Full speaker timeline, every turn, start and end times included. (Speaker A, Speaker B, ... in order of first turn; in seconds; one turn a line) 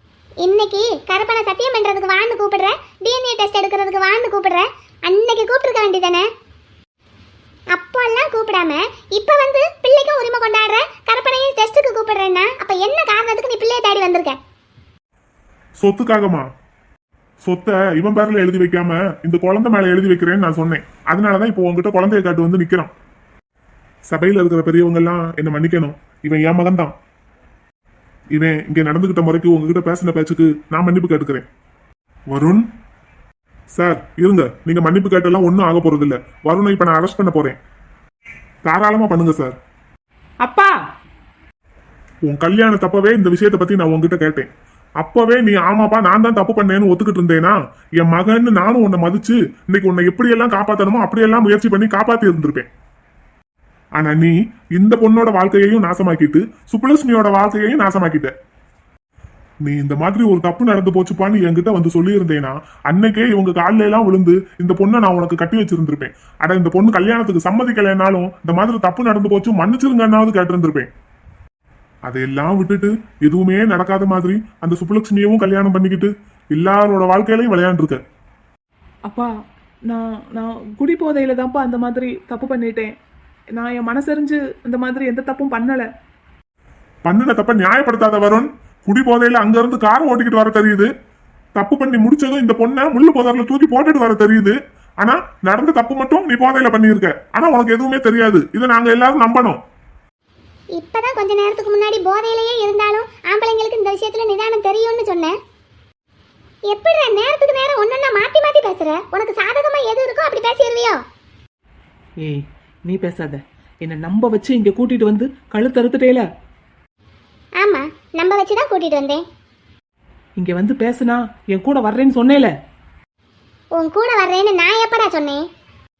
Speaker A: 0.4-6.2
Speaker A: 7.7-14.4
Speaker B: 15.8-16.5
Speaker B: 17.4-22.9
Speaker B: 24.1-26.9
Speaker B: 28.3-31.4
Speaker B: 32.3-32.6
Speaker B: 33.7-37.6
Speaker B: 38.6-39.5
Speaker C: 40.4-40.7
Speaker B: 42.3-44.5
Speaker B: 45.0-52.7
Speaker B: 54.0-58.3
Speaker B: 59.6-70.9
Speaker B: 72.0-78.0
Speaker C: 79.9-82.9
Speaker C: 83.6-85.8
Speaker B: 87.0-90.9
Speaker B: 91.5-99.6
Speaker A: 100.8-105.3
Speaker A: 106.7-111.0
Speaker C: 112.2-116.2
Speaker A: 117.6-119.2
Speaker C: 120.4-122.5
Speaker A: 123.8-125.4